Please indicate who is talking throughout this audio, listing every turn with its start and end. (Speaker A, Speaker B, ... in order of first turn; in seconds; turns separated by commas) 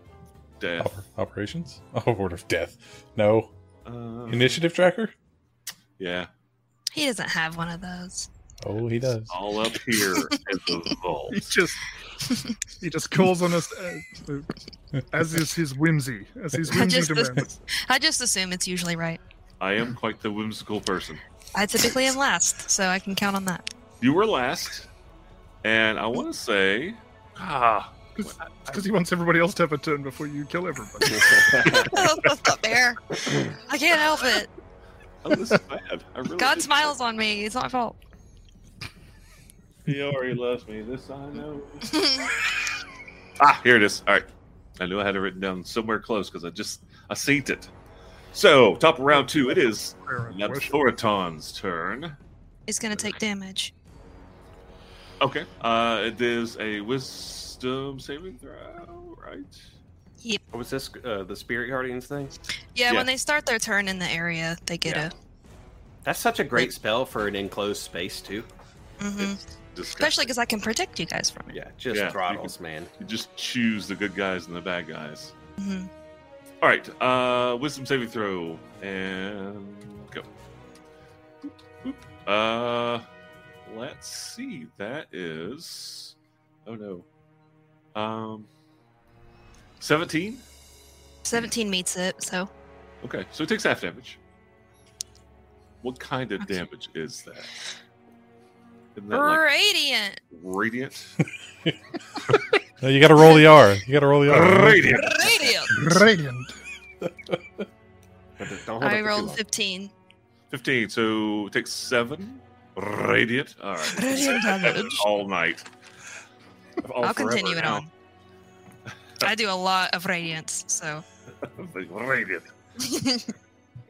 Speaker A: 0.6-1.0, Speaker B: 0.8-3.5, Speaker A: 3.9-4.6, Speaker B: 4.3-5.1, Speaker A: 6.0-6.3, Speaker C: 6.9-8.3, Speaker B: 8.6-9.3, Speaker A: 9.3-11.5, Speaker D: 11.3-11.8, Speaker D: 12.8-14.5, Speaker D: 15.1-17.7, Speaker C: 16.7-19.2, Speaker A: 19.6-21.2, Speaker C: 21.5-23.7, Speaker A: 24.0-24.9, Speaker A: 25.6-28.8, Speaker D: 28.2-31.9, Speaker A: 31.3-32.1, Speaker C: 31.7-34.5, Speaker A: 35.2-36.9, Speaker C: 36.4-38.0, Speaker A: 39.9-42.3, Speaker C: 41.9-42.3, Speaker A: 43.4-47.7, Speaker A: 48.3-52.2, Speaker D: 49.1-50.8, Speaker C: 52.7-53.7, Speaker A: 55.2-59.6, Speaker E: 60.5-62.4, Speaker C: 62.8-65.1, Speaker E: 64.8-65.1, Speaker E: 66.0-68.5, Speaker C: 69.0-69.4, Speaker A: 69.2-70.3, Speaker C: 70.0-71.6, Speaker E: 71.5-72.9, Speaker A: 71.9-75.3, Speaker C: 75.6-75.9, Speaker A: 76.6-80.3, Speaker A: 81.4-83.1, Speaker A: 83.7-87.1, Speaker A: 88.0-88.5, Speaker A: 89.8-90.4, Speaker C: 91.2-92.5, Speaker A: 93.0-94.2, Speaker A: 95.8-97.5, Speaker A: 99.0-99.4, Speaker C: 99.1-100.2, Speaker A: 100.3-101.2, Speaker B: 102.8-105.0, Speaker A: 104.3-105.7, Speaker C: 105.0-106.0, Speaker D: 105.7-106.6, Speaker E: 108.4-109.4, Speaker C: 108.8-109.9, Speaker A: 110.5-115.7, Speaker C: 113.9-115.0, Speaker A: 116.8-117.8, Speaker C: 117.0-117.9, Speaker C: 119.2-121.0, Speaker A: 121.4-122.5, Speaker C: 122.8-123.3